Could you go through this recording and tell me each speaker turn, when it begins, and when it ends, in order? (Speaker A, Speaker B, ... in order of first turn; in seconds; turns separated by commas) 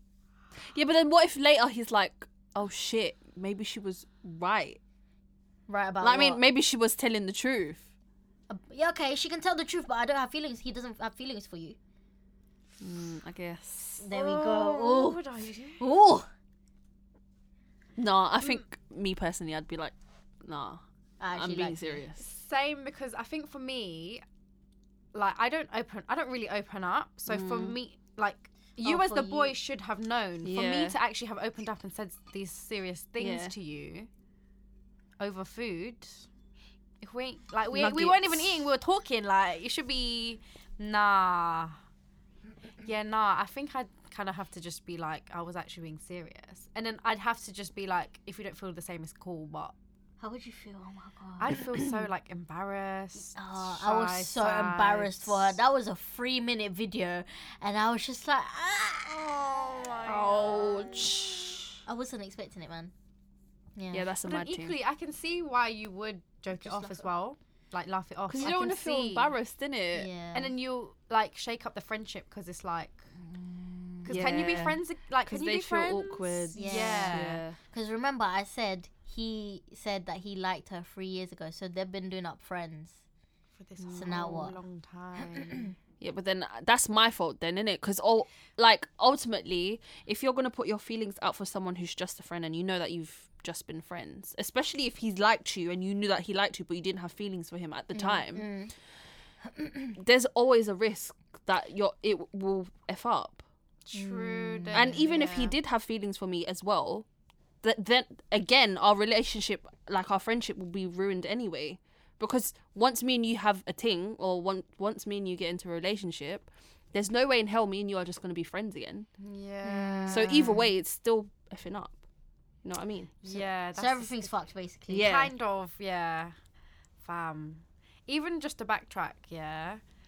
Speaker A: 0.7-4.8, Speaker B: 5.7-6.4, Speaker A: 6.0-7.8, Speaker B: 8.5-11.8, Speaker A: 12.8-14.0, Speaker B: 14.0-15.2, Speaker C: 14.1-15.8, Speaker B: 15.8-16.3, Speaker A: 18.0-20.8, Speaker B: 21.2-22.0, Speaker A: 21.3-22.2, Speaker C: 22.2-24.2, Speaker C: 25.1-34.1, Speaker A: 27.3-27.8, Speaker B: 28.8-29.6, Speaker A: 30.4-31.0, Speaker A: 33.2-33.5, Speaker C: 35.2-36.2, Speaker C: 37.0-41.8, Speaker A: 37.7-38.6, Speaker C: 42.8-49.7, Speaker B: 50.2-51.6, Speaker C: 51.4-55.6, Speaker B: 53.4-60.0, Speaker C: 59.4-61.0, Speaker A: 60.0-61.8, Speaker B: 61.9-62.9, Speaker B: 63.8-64.1, Speaker A: 63.9-64.7, Speaker C: 64.2-69.3, Speaker B: 66.5-67.0, Speaker A: 68.3-70.1, Speaker B: 69.9-70.5, Speaker C: 70.3-73.1, Speaker B: 73.2-74.2, Speaker C: 74.0-77.4, Speaker A: 74.1-77.6, Speaker B: 76.5-83.0, Speaker C: 83.6-85.7, Speaker A: 83.8-84.5, Speaker B: 83.9-84.5, Speaker A: 86.0-98.5, Speaker B: 97.9-98.7, Speaker B: 99.5-99.9, Speaker A: 100.0-103.4, Speaker C: 103.8-105.6, Speaker B: 103.9-105.0, Speaker A: 104.7-107.0, Speaker A: 107.6-119.1, Speaker C: 119.2-120.6, Speaker B: 119.6-120.6, Speaker A: 120.1-122.0, Speaker A: 122.6-123.2, Speaker C: 123.2-124.3, Speaker B: 123.3-125.2, Speaker A: 124.9-125.3, Speaker C: 125.0-126.3, Speaker C: 127.0-129.8